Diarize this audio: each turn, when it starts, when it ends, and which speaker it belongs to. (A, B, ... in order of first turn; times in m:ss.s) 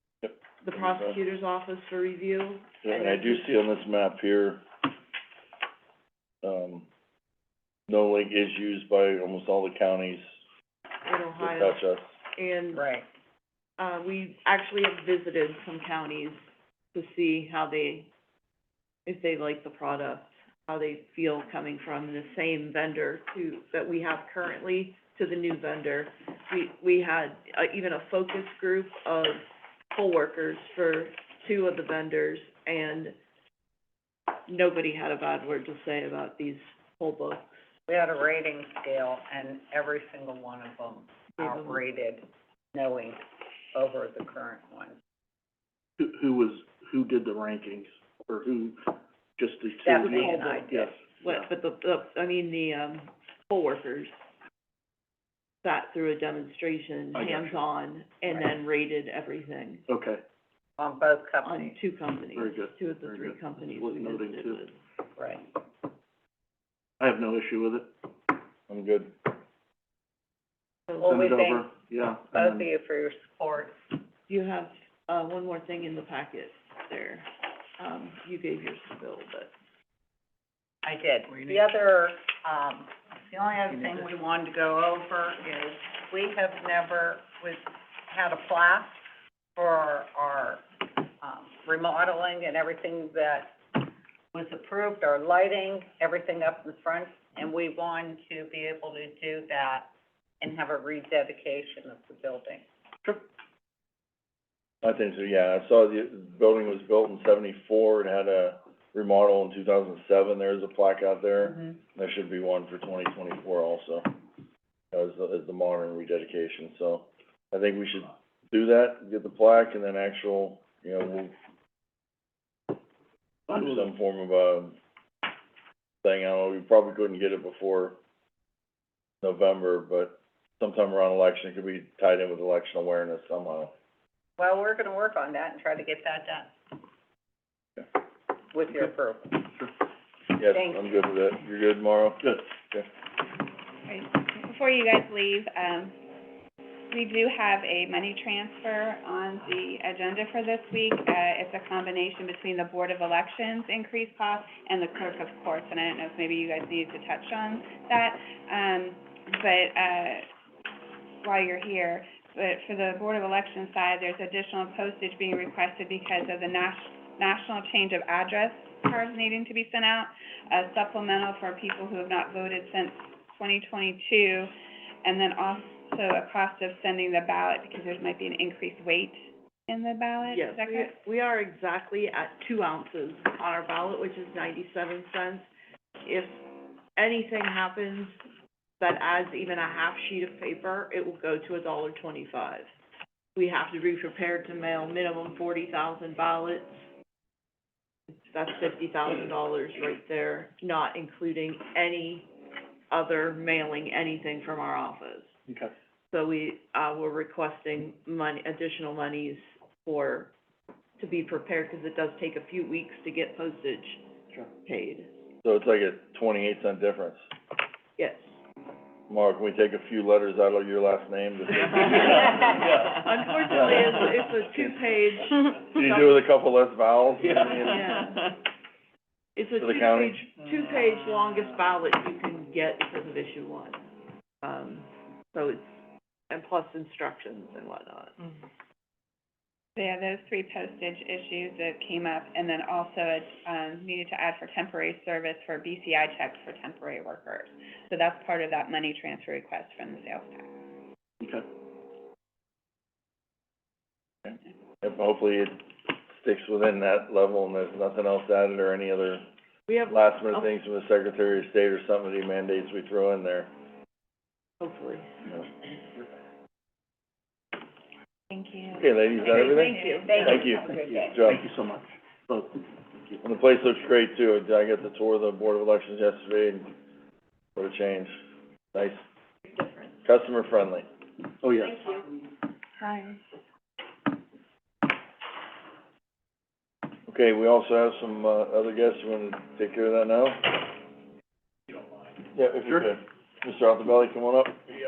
0:00.6-0:03.4 A
0:02.8-0:04.6 B
0:06.4-0:06.9 B
0:07.9-0:10.2 B
0:11.0-0:11.8 A
0:11.4-0:12.1 B
0:12.3-0:12.8 A
0:12.7-0:13.0 C
0:13.8-0:16.4 A
0:16.9-0:18.1 A
0:19.0-0:33.2 A
0:34.5-0:37.6 A
0:37.9-0:43.2 C
0:41.4-0:41.8 A
0:43.7-0:44.9 C
0:46.0-0:51.5 D
0:49.8-0:50.9 C
0:50.0-0:50.4 A
0:51.2-0:54.1 A
0:55.6-0:59.8 A
0:57.1-0:57.6 D
0:59.9-1:00.2 D
1:00.8-1:01.8 C
1:01.4-1:04.7 A
1:02.3-1:04.6 D
1:05.2-1:05.4 C
1:07.0-1:07.9 D
1:08.7-1:09.1 B
1:10.9-1:11.1 A
1:11.0-1:11.7 C
1:11.0-1:12.6 D
1:12.3-1:13.8 C
1:14.3-1:19.5 A
1:20.8-1:29.0 C
1:29.6-1:30.6 C
1:31.2-1:39.9 C
1:40.4-1:42.6 C
1:44.8-1:54.1 B
1:54.9-2:01.3 B
2:03.5-2:03.9 D
2:03.5-2:04.8 B
2:06.0-2:08.0 B
2:09.2-2:13.7 B
2:14.4-2:16.5 C
2:18.5-2:19.4 C
2:20.3-2:22.9 B
2:20.5-2:21.0 C
2:23.9-2:26.0 E
2:26.9-2:40.3 E
2:41.2-2:54.5 E
2:55.0-3:00.9 E
3:00.3-3:05.5 A
3:06.0-3:06.4 A
3:07.0-3:08.2 A
3:08.8-3:12.7 A
3:13.4-3:16.8 A
3:18.3-3:22.3 A
3:22.9-3:25.4 A
3:26.1-3:30.3 A
3:31.0-3:34.0 A
3:34.6-3:35.1 A
3:35.4-3:37.2 B
3:38.0-3:38.3 A
3:39.1-3:42.5 B
3:41.9-3:45.7 A
3:43.5-3:43.9 B
3:45.6-3:48.2 B
3:47.6-3:48.2 A
3:49.3-3:53.9 A
3:49.6-3:50.2 B
3:54.4-3:55.8 A
3:56.3-3:58.2 A
3:59.8-4:10.5 E
4:11.2-4:11.5 D
4:14.2-4:19.3 B
4:19.7-4:20.5 A
4:19.9-4:23.5 B
4:24.6-4:25.1 A
4:28.3-4:30.3 E
4:28.8-4:30.7 B
4:29.3-4:29.6 A
4:30.0-4:31.3 C
4:30.2-4:33.2 D
4:33.2-4:36.7 B
4:37.5-4:38.2 B
4:38.7-4:39.0 B
4:40.0-4:40.8 B
4:41.4-4:42.0 D
4:42.8-4:43.2 E
4:47.1-4:50.6 B
4:52.3-4:54.6 B